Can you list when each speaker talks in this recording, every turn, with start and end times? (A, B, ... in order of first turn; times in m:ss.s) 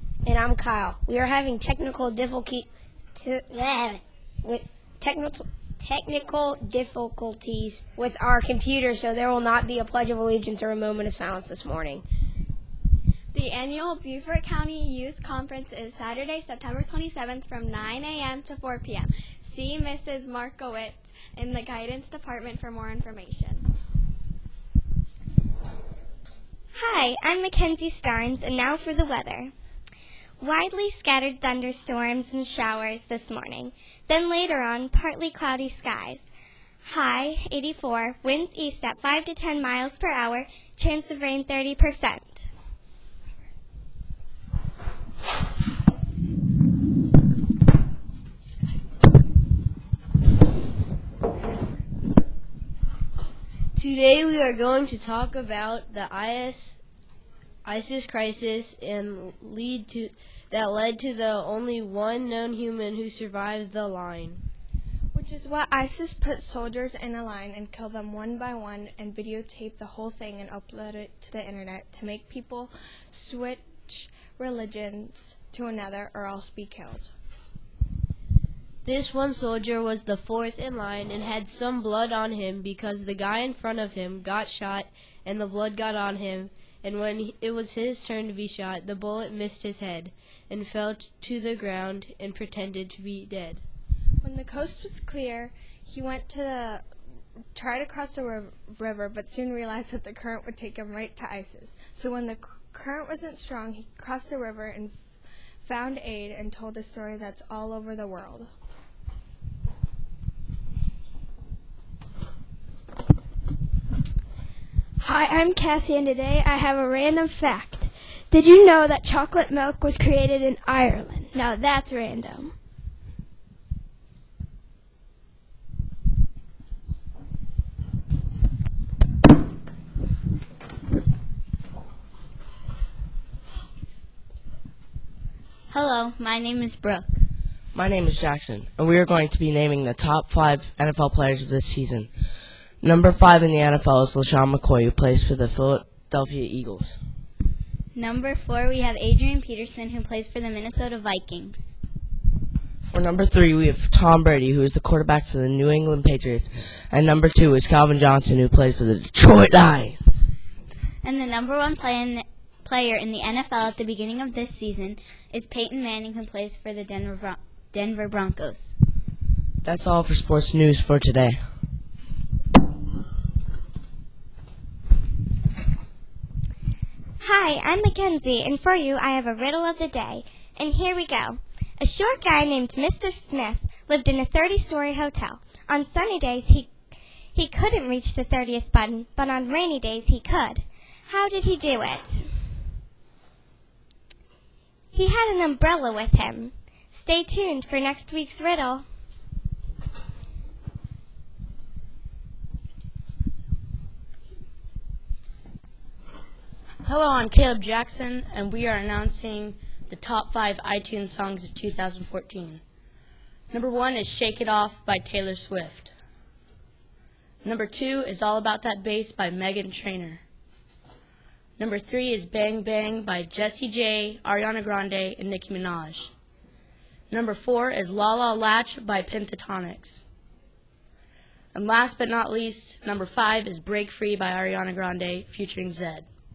0:00.3-0:12.0 A
0:13.3-0:23.7 B
0:26.8-0:29.5 C
0:30.4-0:36.3 C
0:36.8-0:42.5 C
0:53.8-0:56.8 D
0:57.6-1:04.4 D
1:05.1-1:17.1 E
1:18.8-1:33.6 D
1:34.2-1:36.8 E
1:37.6-1:45.0 E
1:45.6-1:48.5 E
1:55.0-2:02.5 F
2:15.7-2:17.1 G
2:17.7-2:22.1 H
2:22.8-2:27.0 H
2:27.9-2:31.7 G
2:32.8-2:40.3 H
2:41.0-2:48.7 G
2:49.6-2:51.4 H
2:57.2-3:06.7 C
3:07.4-3:12.3 C
3:14.9-3:18.8 C
3:26.8-3:32.6 I
3:33.5-3:36.0 I
3:37.4-3:40.2 I
3:41.6-3:46.1 I
3:47.1-3:50.0 I
3:51.5-3:56.1 I